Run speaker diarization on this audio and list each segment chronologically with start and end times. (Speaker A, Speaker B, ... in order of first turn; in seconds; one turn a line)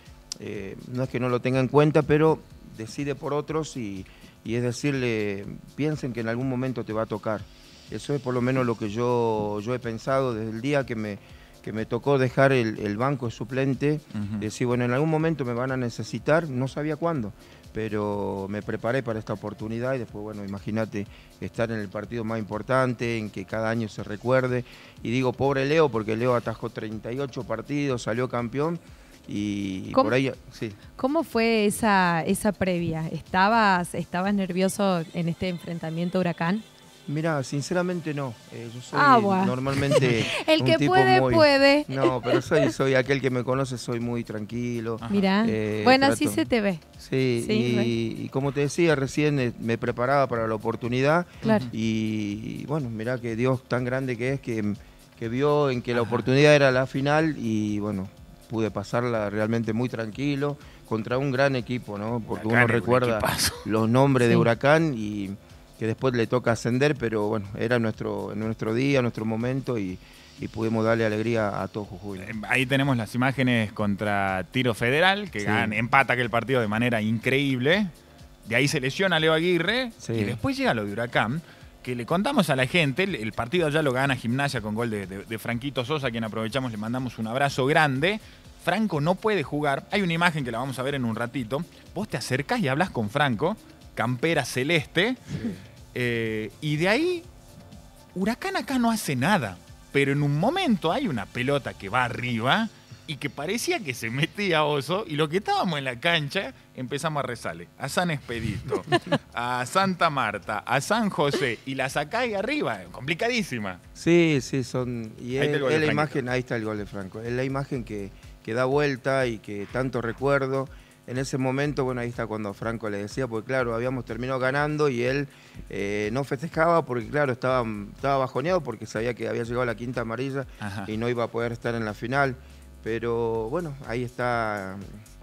Speaker A: 0.4-30.8
Speaker B: 14.1-14.5
Speaker C: 30.9-36.6
Speaker A: 37.1-46.5
Speaker C: 38.9-42.7
Speaker B: 45.0-45.3
Speaker C: 45.1-46.8
Speaker A: 47.0-72.3
Speaker C: 47.4-47.9
Speaker C: 51.4-51.7
Speaker B: 51.4-51.7
Speaker B: 55.9-56.3
Speaker B: 62.3-63.7
Speaker C: 64.2-64.5
Speaker B: 72.2-77.9
Speaker A: 75.4-75.8
Speaker B: 78.5-95.4
Speaker A: 80.0-80.4
Speaker A: 95.3-95.6
Speaker B: 95.9-97.3
Speaker B: 98.2-113.8
Speaker A: 114.0-135.0
Speaker B: 115.4-116.2
Speaker B: 130.6-130.9